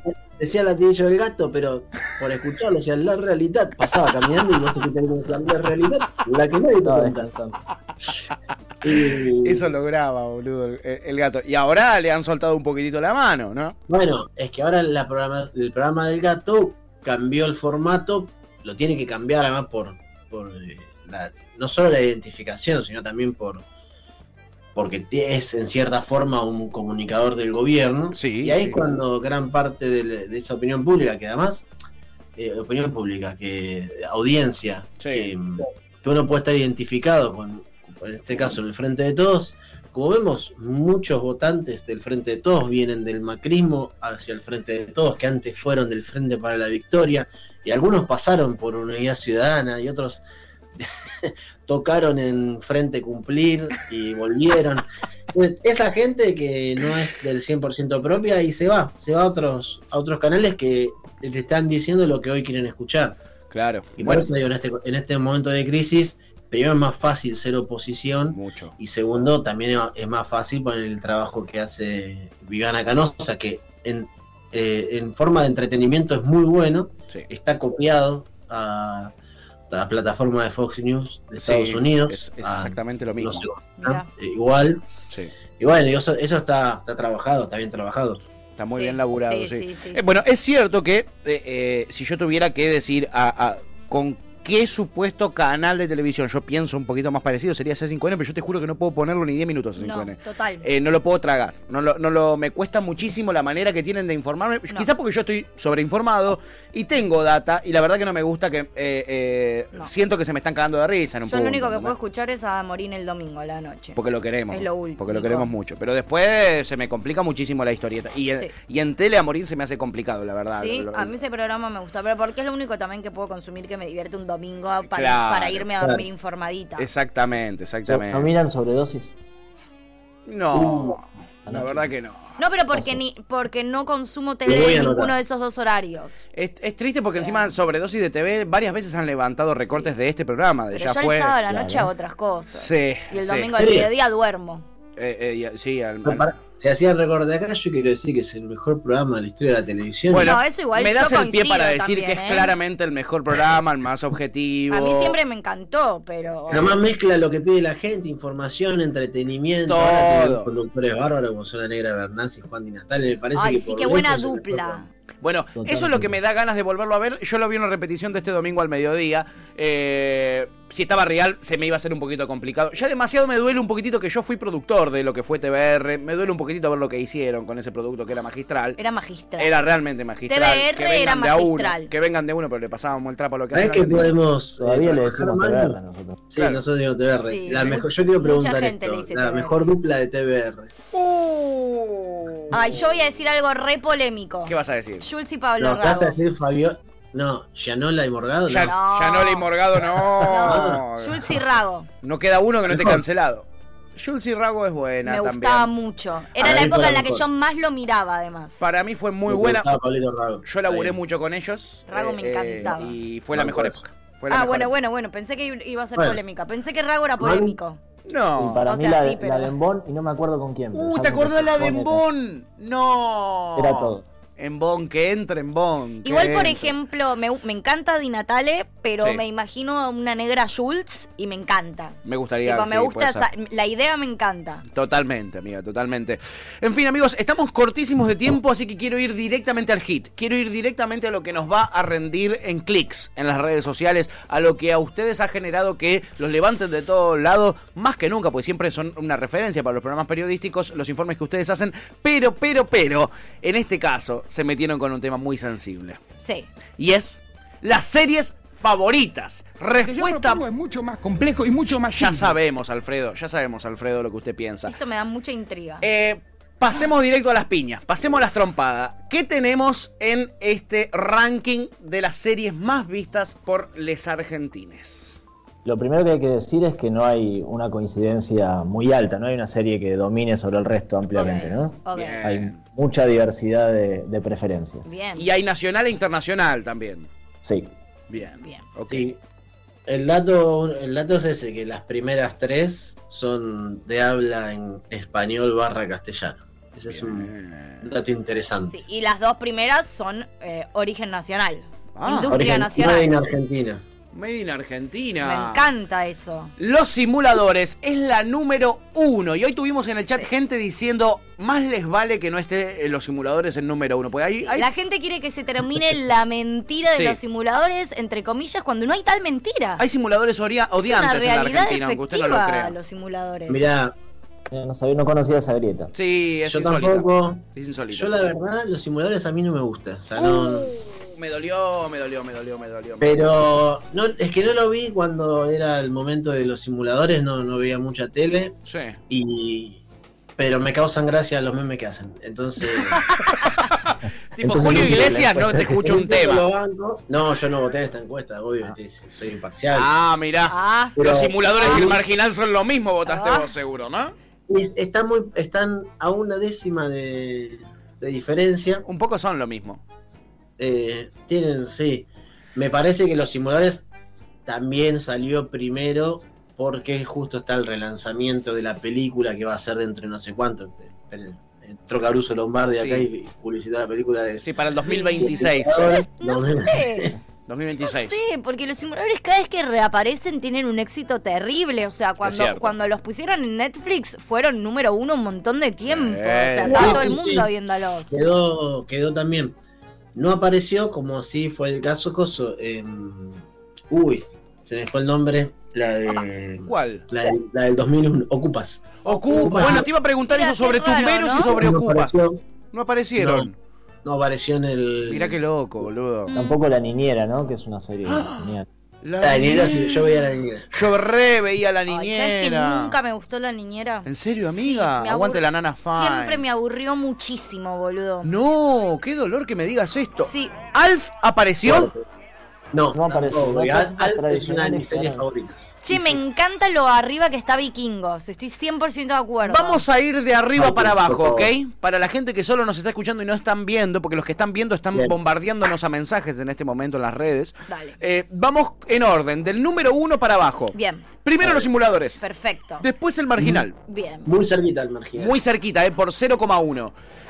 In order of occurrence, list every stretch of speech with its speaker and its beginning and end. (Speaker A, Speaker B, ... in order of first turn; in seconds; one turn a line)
Speaker A: 0.4-7.3
Speaker B: 6.8-7.6
Speaker A: 8.8-9.7
Speaker C: 8.9-13.8
Speaker A: 13.9-23.6
Speaker A: 24.8-31.7
Speaker C: 28.1-28.8
Speaker A: 32.4-50.2
Speaker C: 35.0-35.3
Speaker A: 50.8-63.2
Speaker C: 63.5-64.3
Speaker A: 64.0-79.1
Speaker C: 68.3-68.7
Speaker A: 79.7-84.8
Speaker C: 81.4-83.5
Speaker D: 83.8-84.1
Speaker A: 85.6-88.2
Speaker C: 88.6-111.9
Speaker D: 88.7-90.1
Speaker D: 99.8-100.7
Speaker D: 111.3-114.0
Speaker C: 114.0-121.1
Speaker D: 114.5-115.5
Speaker D: 120.5-126.9
Speaker C: 124.9-125.7
Speaker A: 125.8-126.0
Speaker C: 126.8-128.3
Speaker B: 127.9-129.1
Speaker C: 130.3-132.4
Speaker A: 130.5-131.0
Speaker B: 131.5-131.9
Speaker D: 132.4-136.2
Speaker A: 134.5-135.2
Speaker C: 136.3-141.3
Speaker D: 137.2-137.5
Speaker D: 140.7-144.7
Speaker B: 141.5-141.9
Speaker C: 142.5-143.5
Speaker A: 143.6-143.9
Speaker C: 145.0-146.3
Speaker A: 146.1-150.4
Speaker C: 150.1-155.2
Speaker D: 150.2-152.5
Speaker D: 154.7-156.8
Speaker A: 156.5-164.8
Speaker C: 159.7-160.5
Speaker D: 163.3-164.9
Speaker C: 165.2-178.8
Speaker B: 165.6-166.2
Speaker D: 178.8-179.5
Speaker C: 179.4-184.2
Speaker D: 180.3-181.9
Speaker A: 183.5-185.8
Speaker B: 184.6-186.2
Speaker A: 186.3-190.7
Speaker C: 186.4-186.6
Speaker D: 187.2-189.6
Speaker C: 187.5-187.8
Speaker C: 190.9-192.8
Speaker D: 192.5-196.2
Speaker C: 194.5-195.1
Speaker A: 195.6-198.7
Speaker C: 198.5-201.4
Speaker D: 198.6-199.5
Speaker A: 199.8-200.8
Speaker D: 200.2-201.9
Speaker C: 202.0-205.7
Speaker A: 202.7-203.0
Speaker D: 205.0-208.6
Speaker A: 206.4-207.2
Speaker C: 208.6-209.8
Speaker A: 209.3-211.0
Speaker C: 210.4-214.7
Speaker D: 211.9-213.0
Speaker A: 213.3-213.8
Speaker D: 214.3-217.8
Speaker A: 217.2-217.6
Speaker C: 218.1-218.7
Speaker B: 218.4-222.0
Speaker D: 218.6-219.5
Speaker C: 220.7-226.8
Speaker B: 223.6-224.1
Speaker D: 226.0-234.6
Speaker C: 232.1-233.3
Speaker C: 234.7-256.0
Speaker D: 256.2-256.5
Speaker C: 256.8-260.4
Speaker E: 259.9-262.2
Speaker C: 261.7-264.8
Speaker D: 264.7-265.9
Speaker C: 265.8-275.2
Speaker B: 275.6-284.9
Speaker D: 281.1-282.2
Speaker C: 281.9-282.6
Speaker D: 284.9-285.3
Speaker C: 285.2-287.1
Speaker B: 287.4-287.7
Speaker C: 288.1-289.1
Speaker D: 288.4-288.6
Speaker A: 288.9-289.2
Speaker A: 289.9-297.3
Speaker C: 296.9-297.8
Speaker A: 297.8-298.8
Speaker D: 298.7-303.1
Speaker C: 301.9-302.5
Speaker A: 302.3-303.8
Speaker C: 304.1-305.7
Speaker D: 305.2-306.5
Speaker C: 306.6-314.7
Speaker D: 314.5-319.8
Speaker C: 319.8-322.8
Speaker D: 320.8-323.6
Speaker A: 323.5-324.0
Speaker B: 324.5-325.9
Speaker C: 325.9-328.3
Speaker A: 326.5-330.7
Speaker C: 330.1-333.4
Speaker A: 333.0-338.6
Speaker C: 338.6-339.0
Speaker A: 339.1-339.8
Speaker A: 340.4-343.1
Speaker C: 343.1-346.5
Speaker B: 344.4-345.9
Speaker A: 344.5-345.3
Speaker A: 345.8-349.9
Speaker C: 349.7-354.1
Speaker D: 350.5-351.9
Speaker A: 351.0-352.0
Speaker D: 353.1-353.5
Speaker A: 354.5-358.8
Speaker C: 358.9-359.8
Speaker A: 360.6-363.9
Speaker A: 364.5-377.2
Speaker C: 372.7-373.1
Speaker C: 374.4-376.0
Speaker D: 375.0-377.1
Speaker C: 377.5-378.2
Speaker D: 377.8-388.1
Speaker C: 382.2-382.7
Speaker C: 385.9-387.1
Speaker A: 386.7-387.5
Speaker A: 388.1-389.6
Speaker A: 390.1-399.9
Speaker C: 396.6-397.1
Speaker C: 399.0-403.6
Speaker D: 399.4-401.5
Speaker A: 401.5-402.4
Speaker A: 403.2-403.5
Speaker A: 404.1-405.4
Speaker C: 405.1-406.4
Speaker D: 406.3-406.6
Speaker B: 406.3-408.7
Speaker C: 408.1-412.9
Speaker A: 409.2-410.8
Speaker D: 411.9-418.3
Speaker C: 414.1-416.4
Speaker C: 418.2-421.9
Speaker D: 420.2-420.6
Speaker A: 421.6-422.0
Speaker A: 422.7-426.2
Speaker B: 422.9-425.3
Speaker D: 425.8-429.8
Speaker C: 429.4-442.2
Speaker A: 430.6-431.5
Speaker D: 437.7-437.9
Speaker D: 440.7-441.1
Speaker A: 441.4-441.7
Speaker D: 442.2-442.9
Speaker C: 442.8-443.8
Speaker A: 443.4-443.6
Speaker D: 443.9-444.3
Speaker A: 444.3-445.4
Speaker C: 445.2-446.9